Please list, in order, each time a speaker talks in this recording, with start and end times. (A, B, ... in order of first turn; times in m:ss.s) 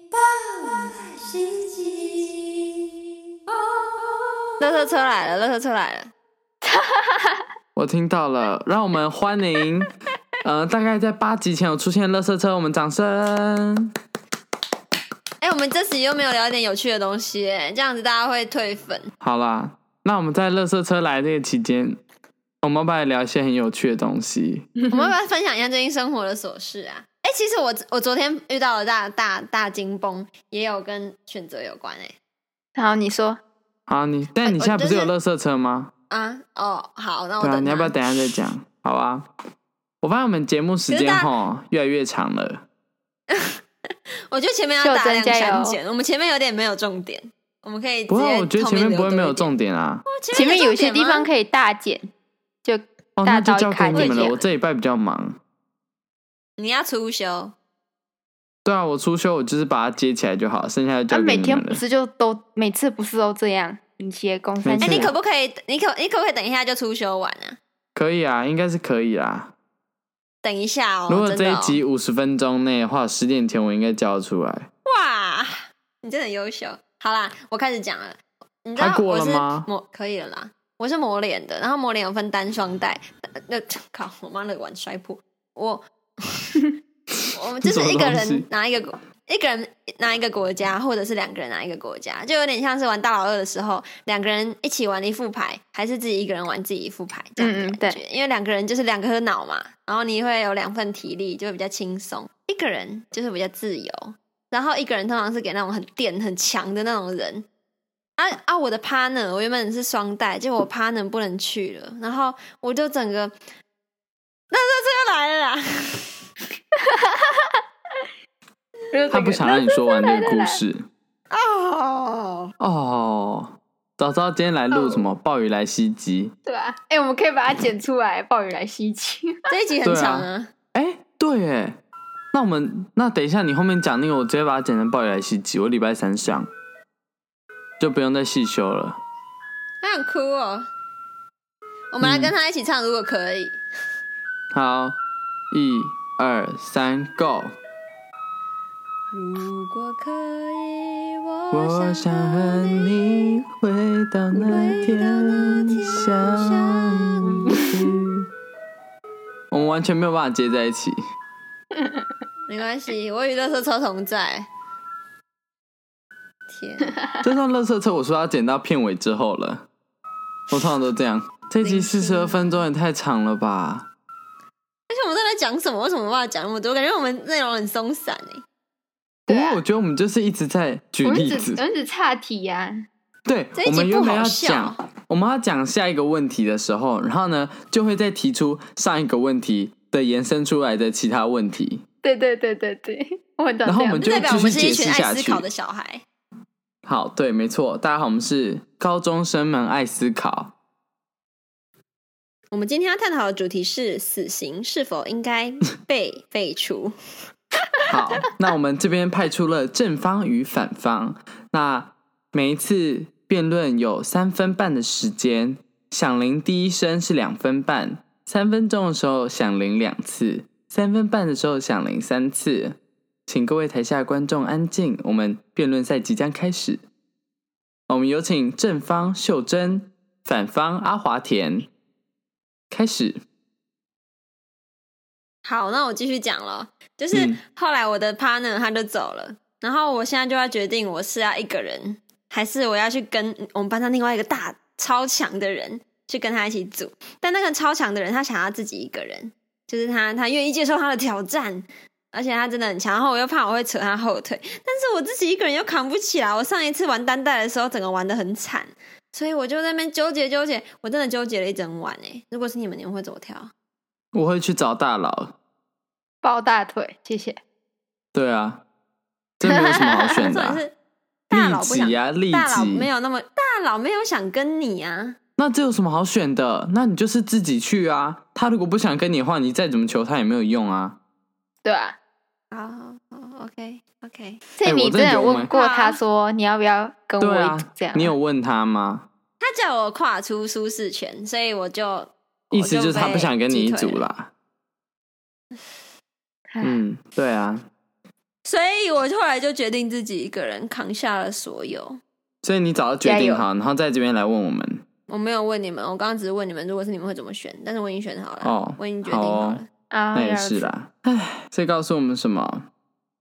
0:00.1-0:02.6 A
0:04.6-0:06.1 A
0:06.6-0:07.4 B
0:07.8-0:09.9 C
0:10.4-0:13.9 C
0:15.4-0:19.1 A
0:19.2-0:22.0 C
0:22.6-0:24.6 C
0:24.8-0:25.1 B
0:24.9-0:32.1 A
0:32.8-0:33.4 B
0:33.9-0:35.9 C
0:34.4-0:35.1 A
0:36.1-0:38.0 A
0:37.4-0:39.3 C
0:40.0-0:42.6 C
0:40.9-0:41.3 A
0:44.3-0:49.5 A
0:44.8-0:45.8 B
0:48.1-0:50.0 C
0:50.0-0:51.3 A
0:50.3-0:52.1 B
0:52.6-0:54.3 B
0:53.2-0:55.4 C
0:53.9-0:54.4 A
0:56.6-0:57.5 A
0:58.6-1:01.8 C
1:01.1-1:05.1 B
1:04.6-1:05.1 C
1:04.7-1:07.6 A
1:08.0-1:09.5 C
1:10.4-1:11.8 A
1:11.1-1:14.7 C
1:14.8-1:26.6 A
1:18.8-1:19.7 C
1:27.3-1:47.4 A
1:27.6-1:28.5 C
1:37.4-1:38.0 B
1:48.2-1:53.4 A
1:54.5-1:56.1 A
1:56.8-1:57.5 B
1:58.9-2:00.6 B
1:59.1-2:00.8 C
2:01.3-2:02.5 A
2:02.6-2:06.3 C
2:04.7-2:05.0 B
2:06.4-2:09.5 B
2:09.5-2:10.5 A
2:09.8-2:11.8 C
2:12.3-2:16.5 C
2:17.8-2:19.0 C
2:19.8-2:20.7 A
2:21.9-2:23.6 A
2:22.0-2:22.3 C
2:24.5-2:25.0 C
2:25.5-2:27.6 C
2:29.1-2:33.2 A
2:31.5-2:38.3 C
2:34.3-2:37.4 A
2:39.5-2:41.0 C
2:42.5-2:44.5 A
2:46.5-2:47.0 A
2:47.0-2:47.2 B
2:47.2-2:49.7 C
2:50.5-2:53.9 C
2:51.6-2:52.6 A
2:54.9-2:58.4 A
2:59.3-2:59.6 B
2:59.3-3:01.6 C
3:01.0-3:02.8 B
3:03.3-3:11.8 C
3:03.6-3:04.8 A
3:12.0-3:14.1 B
3:13.6-3:15.4 C
3:14.0-3:16.0 A
3:16.8-3:20.5 C
3:22.5-3:26.9 A
3:27.9-3:46.8 C
3:47.9-3:51.7 C
3:52.7-3:53.2 C
3:55.4-4:23.5 A
3:57.1-3:57.4 C
4:24.1-4:25.3 C
4:26.2-4:27.4 B
4:28.1-4:28.6 C
4:29.4-4:30.6 C
4:29.4-4:30.1 B
4:30.0-4:30.7 A
4:31.3-4:35.2 A
4:31.3-4:32.9 C
4:35.4-4:41.0 C
4:41.6-4:42.0 B
4:42.5-4:44.4 A
4:44.5-4:48.1 B
4:44.6-4:45.5 C
4:45.2-4:46.0 A
4:47.2-4:49.0 C
4:49.4-4:54.1 A
4:52.5-4:54.3 C
4:56.5-4:56.8 B
4:56.6-4:57.6 C
4:58.4-5:02.0 A
5:02.4-5:04.8 C
5:03.0-5:03.5 B
5:05.1-5:09.7 A
5:08.4-5:09.6 C
5:09.9-5:10.7 B
5:10.1-5:12.7 C